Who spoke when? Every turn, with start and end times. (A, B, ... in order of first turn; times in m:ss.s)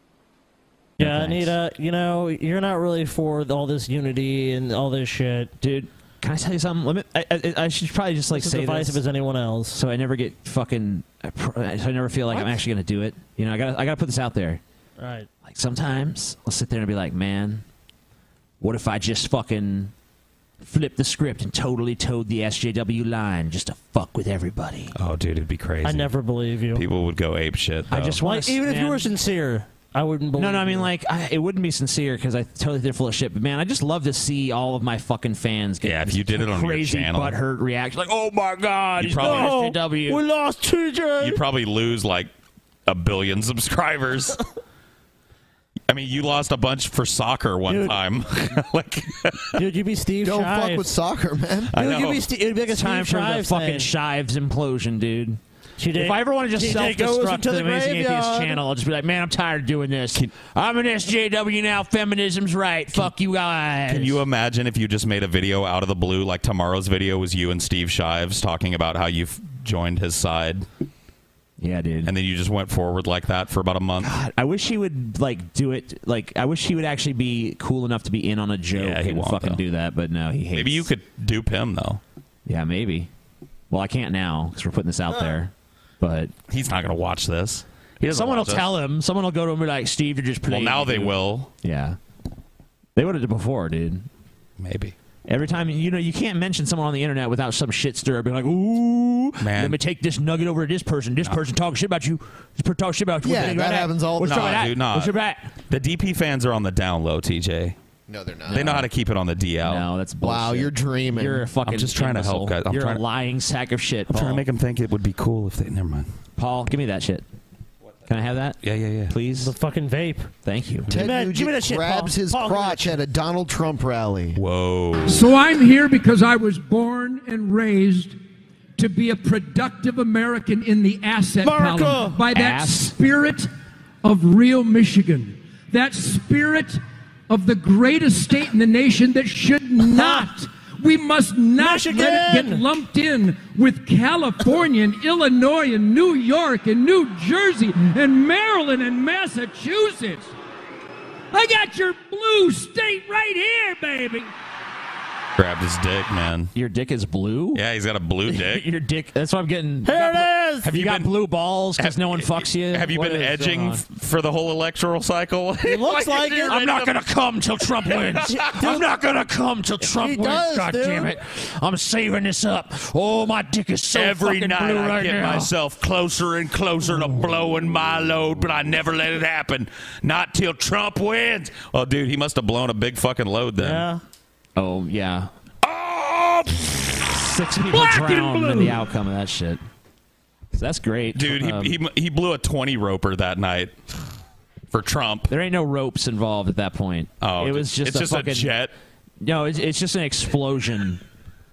0:01.0-0:01.6 A
0:01.0-0:05.5 B
0:05.6-0:09.0 A
0:08.3-0:09.8 B
0:09.7-0:14.6 A
0:12.3-0:12.6 B
0:15.0-0:15.3 B
0:15.4-0:17.6 A
0:18.6-0:19.9 A
0:20.6-0:24.9 A
0:25.0-0:26.1 C
0:25.8-0:26.8 B
0:26.7-0:28.2 C
0:27.9-0:29.1 A
0:28.2-0:30.9 B
0:30.4-0:40.2 A
0:35.8-0:37.4 C
0:39.0-0:39.6 C
0:39.1-0:41.4 B
0:41.2-0:42.3 C
0:42.9-0:44.4 C
0:45.9-0:49.5 C
0:47.7-0:48.0 B
0:49.6-0:50.9 B
0:50.2-0:51.7 D
0:51.7-0:52.3 C
0:51.8-0:53.9 B
0:52.7-0:55.4 A
0:55.8-0:58.6 B
0:55.9-1:04.2 A
1:03.9-1:10.7 C
1:11.6-1:12.1 A
1:12.0-1:14.1 C
1:14.0-1:20.9 A
1:18.7-1:19.6 C
1:20.6-1:22.0 C
1:22.5-1:23.1 A
1:23.7-1:26.3 A
1:26.5-1:28.7 C
1:28.0-1:32.0 A
1:30.5-1:31.5 C
1:33.0-1:34.1 A
1:34.6-1:35.0 C
1:35.3-1:45.5 A
1:39.4-1:39.8 C
1:43.2-1:44.7 D
1:44.2-1:45.2 C
1:45.7-1:47.8 C
1:48.1-1:48.9 D
1:48.5-1:49.9 C
1:49.6-1:54.4 A
1:50.2-1:51.5 D
1:51.6-1:53.0 C
1:54.1-1:56.1 C
1:56.4-1:57.2 A
1:58.1-1:58.6 A
1:58.6-1:59.1 C
1:59.1-1:59.5 A
1:59.4-2:00.3 B
2:00.4-2:00.9 A
2:00.9-2:04.4 D
2:00.9-2:03.0 B
2:04.4-2:05.3 C
2:05.0-2:08.2 E
2:08.8-2:13.5 E
2:11.4-2:12.2 B
2:12.3-2:13.0 A
2:14.0-2:30.3 E
2:19.8-2:20.3 B
2:21.6-2:22.6 B
2:31.3-2:34.3 E
2:35.4-2:36.5 C
2:36.6-2:37.6 A
2:37.5-2:38.6 C
2:38.3-2:43.8 A
2:39.8-2:40.7 B
2:40.7-2:41.1 C
2:41.8-2:47.0 C
2:45.6-2:46.6 B
2:46.5-2:55.5 A
2:47.8-2:48.8 C
2:48.3-2:48.8 B
2:49.9-2:51.1 B
2:53.9-3:03.9 C
3:03.6-3:04.0 B
3:04.6-3:05.3 A
3:05.6-3:07.0 C
3:07.1-3:09.6 A
3:07.7-3:08.7 E
3:10.5-3:11.8 A
3:11.2-3:13.7 C
3:14.7-3:15.3 C
3:15.3-3:18.6 A
3:17.2-3:18.7 C
3:19.2-3:21.0 A